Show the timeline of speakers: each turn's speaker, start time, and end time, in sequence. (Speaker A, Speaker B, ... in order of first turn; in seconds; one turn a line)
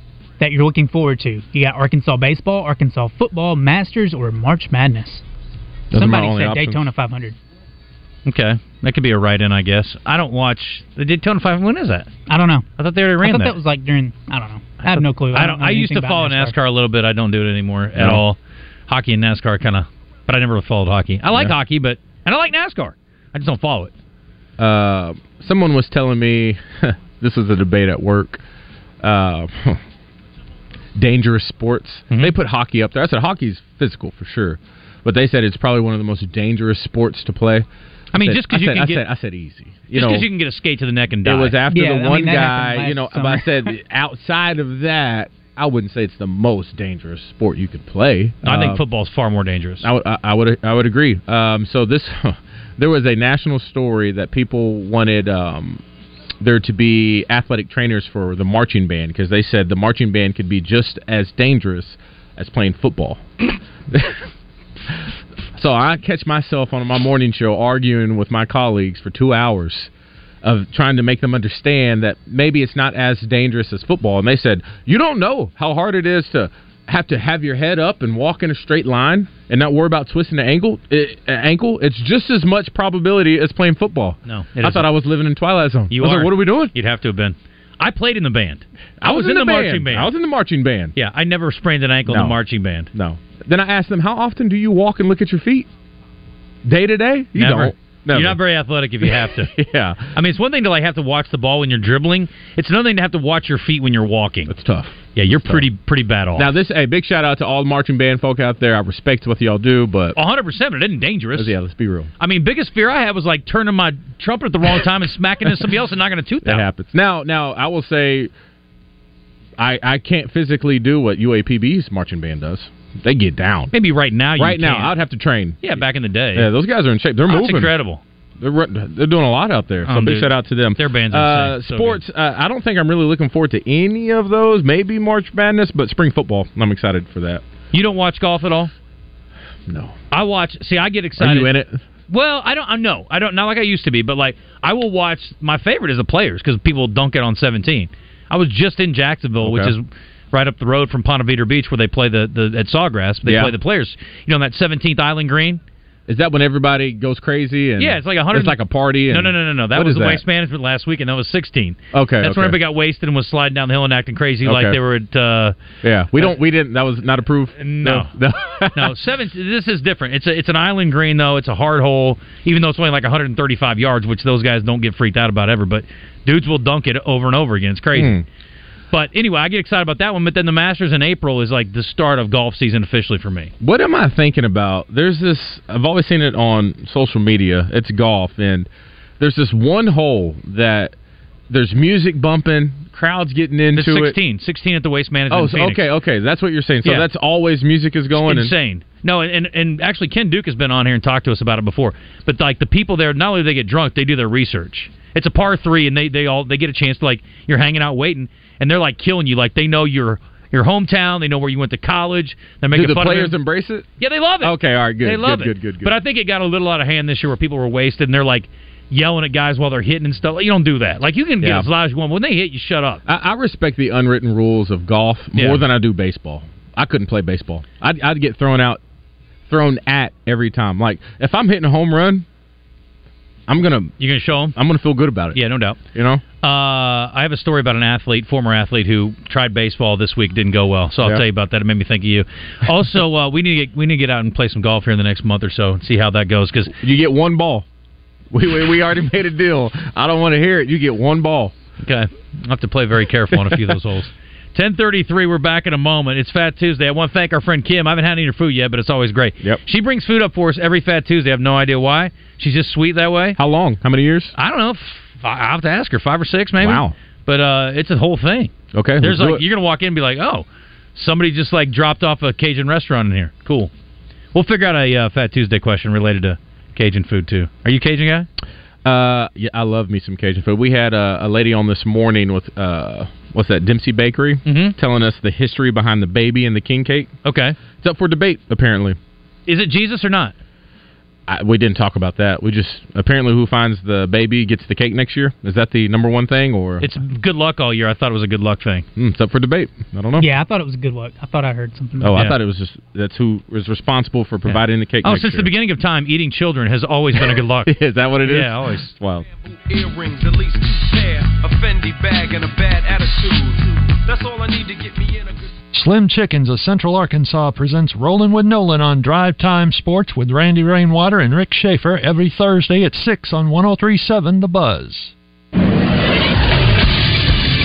Speaker A: 0.4-5.2
Speaker B: 5.9-6.9
Speaker A: 5.9-7.4
Speaker C: 8.2-12.1
Speaker A: 12.3-12.7
Speaker C: 12.8-13.6
Speaker A: 13.2-16.5
Speaker C: 14.8-23.9
Speaker B: 17.9-18.2
Speaker B: 24.6-28.4
Speaker B: 29.0-29.8
Speaker B: 30.9-40.3
Speaker C: 38.1-39.0
Speaker C: 39.9-41.6
Speaker B: 41.2-48.8
Speaker A: 41.7-43.7
Speaker C: 48.4-49.8
Speaker B: 49.8-55.8
Speaker B: 56.4-63.2
Speaker B: 65.5-69.9
Speaker B: 70.4-86.7
Speaker C: 84.2-84.9
Speaker C: 85.9-90.1
Speaker B: 89.0-90.9
Speaker C: 91.0-92.9
Speaker B: 92.1-92.4
Speaker B: 92.9-95.7
Speaker B: 96.6-98.4
Speaker C: 97.3-99.5
Speaker B: 99.0-100.1
Speaker C: 100.1-104.5
Speaker B: 104.5-105.7
Speaker C: 105.1-106.5
Speaker B: 106.3-110.2
Speaker C: 110.1-111.5
Speaker B: 111.3-112.1
Speaker C: 112.2-116.7
Speaker B: 116.4-118.3
Speaker B: 119.6-123.7
Speaker C: 123.7-124.9
Speaker B: 124.4-125.8
Speaker C: 125.6-126.5
Speaker B: 126.3-127.7
Speaker C: 127.3-128.0
Speaker B: 128.4-137.4
Speaker C: 129.8-132.0
Speaker C: 137.7-138.7
Speaker B: 139.7-139.9
Speaker C: 140.1-141.5
Speaker B: 141.2-141.8
Speaker C: 142.1-155.6
Speaker B: 149.4-149.7
Speaker B: 153.2-153.5
Speaker B: 156.1-160.2
Speaker C: 157.8-165.6
Speaker B: 161.9-162.6
Speaker B: 164.4-164.8
Speaker B: 165.8-168.9
Speaker C: 167.6-168.1
Speaker C: 168.7-178.1
Speaker B: 177.9-178.2
Speaker C: 178.9-183.5
Speaker B: 183.6-188.7
Speaker B: 189.2-190.9
Speaker B: 191.5-194.2
Speaker C: 193.7-195.9
Speaker B: 195.3-198.5
Speaker C: 198.1-213.3
Speaker B: 212.7-213.9
Speaker C: 214.0-223.0
Speaker B: 214.4-216.0
Speaker B: 221.4-221.7
Speaker B: 223.1-228.8
Speaker C: 225.3-225.6
Speaker B: 229.5-232.2
Speaker B: 233.5-233.9
Speaker C: 234.0-234.6
Speaker B: 234.5-235.4
Speaker C: 235.3-235.8
Speaker B: 235.9-236.2
Speaker C: 236.4-246.7
Speaker B: 246.8-247.7
Speaker B: 248.3-251.5
Speaker C: 251.8-263.4
Speaker B: 253.3-253.7
Speaker B: 263.4-264.3
Speaker C: 264.4-273.7
Speaker B: 266.6-266.9
Speaker B: 268.7-269.4
Speaker C: 274.3-278.3
Speaker B: 278.8-287.1
Speaker C: 284.4-284.7
Speaker C: 287.2-287.6
Speaker B: 287.8-289.0
Speaker C: 289.5-290.3
Speaker B: 291.3-296.9
Speaker C: 296.8-298.9
Speaker B: 298.9-300.3
Speaker A: 300.2-302.2
Speaker B: 302.0-305.5
Speaker C: 304.4-307.7
Speaker B: 307.6-309.2
Speaker C: 308.2-308.9
Speaker D: 309.5-315.5
Speaker E: 315.7-325.1